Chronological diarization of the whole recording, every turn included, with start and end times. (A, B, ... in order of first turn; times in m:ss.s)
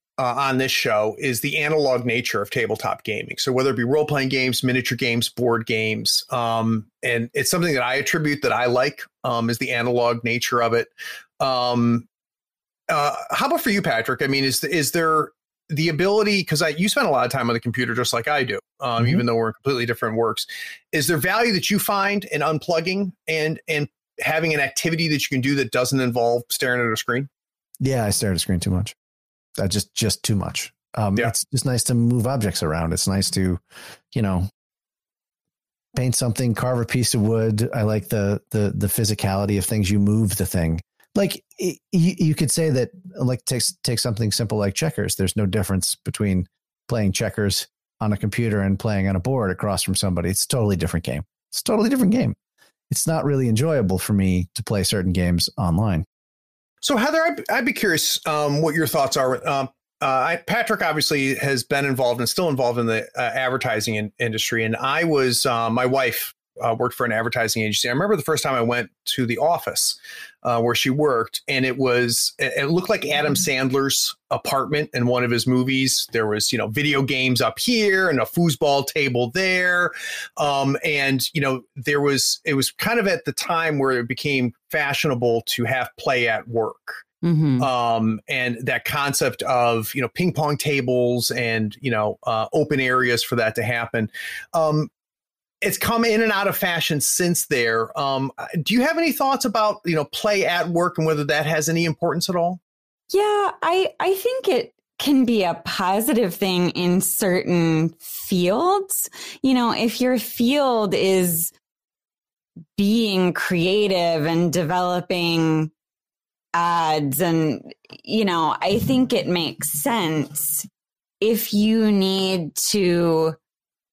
0:00.2-0:12.1 A
0:12.9-0:27.3 A
0:19.0-0:19.2 B
0:27.8-0:28.9 B
0:29.6-0:33.6 B
0:34.1-0:34.5 B
0:35.9-0:52.4 B
0:52.9-0:56.0 B
0:56.8-1:27.0 A
1:27.2-1:27.7 C
1:27.6-1:34.9 A
1:35.6-1:42.6 A
1:43.1-1:51.5 C
1:52.8-1:55.7 C
1:56.5-2:00.7 C
2:01.2-2:03.4 C